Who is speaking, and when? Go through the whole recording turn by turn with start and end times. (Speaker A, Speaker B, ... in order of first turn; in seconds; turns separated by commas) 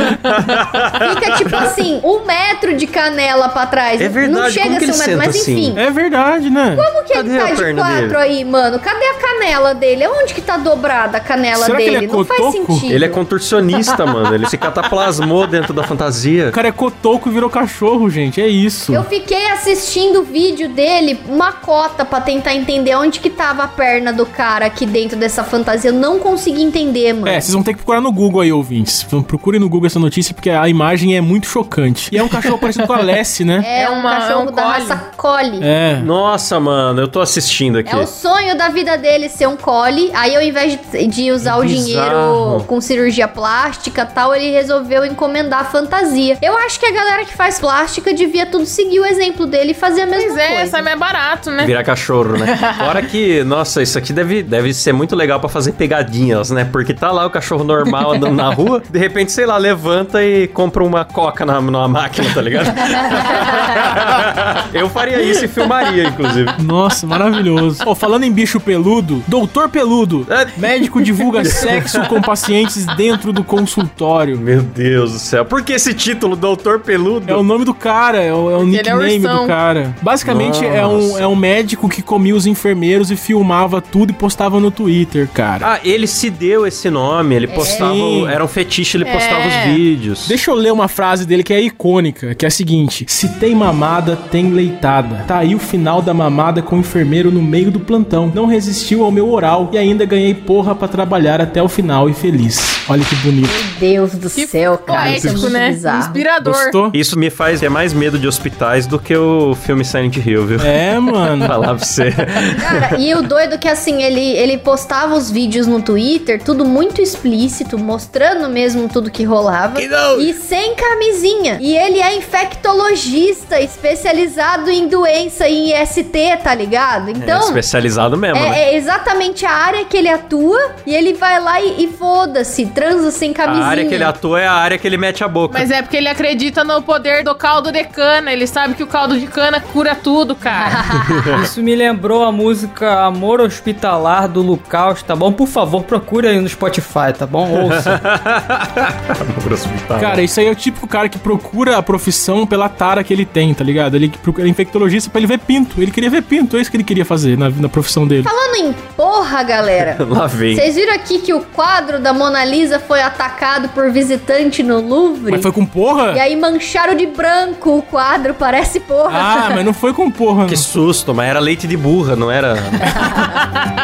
Speaker A: 0.2-1.6, Speaker B: 1.0-5.8, Speaker A: 4.0-5.8, Speaker C: 5.7-6.9, Speaker B: 6.7-13.2, Speaker A: 7.1-8.2, Speaker C: 11.5-12.9, Speaker A: 12.9-16.6, Speaker C: 16.5-19.1, Speaker B: 18.9-27.5, Speaker C: 27.2-33.7, Speaker B: 33.6-35.7, Speaker D: 33.7-35.0, Speaker C: 35.6-36.1, Speaker A: 36.0-38.1, Speaker B: 37.9-50.9, Speaker A: 41.4-42.7, Speaker D: 50.1-51.8, Speaker A: 51.6-66.5, Speaker D: 52.4-52.9, Speaker C: 66.6-74.4, Speaker A: 70.3-72.3, Speaker A: 74.3-77.5, Speaker C: 77.2-85.7, Speaker D: 78.6-79.5, Speaker A: 80.2-81.3, Speaker A: 85.6-90.4, Speaker B: 87.5-88.0, Speaker C: 87.5-88.4, Speaker D: 89.0-89.8, Speaker C: 90.2-103.6, Speaker B: 103.4-106.2, Speaker D: 104.3-106.8, Speaker C: 104.9-105.5, Speaker C: 106.4-107.0, Speaker A: 106.9-110.8, Speaker C: 110.6-111.6, Speaker A: 111.3-113.0, Speaker B: 112.6-127.6, Speaker A: 119.8-120.3, Speaker A: 127.1-128.6, Speaker B: 128.3-134.1, Speaker A: 133.4-135.7, Speaker D: 135.5-140.9, Speaker B: 140.6-141.4, Speaker A: 141.0-141.4, Speaker E: 141.3-148.0, Speaker A: 147.5-150.2, Speaker C: 149.9-158.3, Speaker B: 158.2-165.5, Speaker A: 159.9-160.7, Speaker C: 165.3-166.2, Speaker B: 166.1-169.6, Speaker C: 169.1-170.7, Speaker A: 170.4-172.9, Speaker D: 173.0-173.3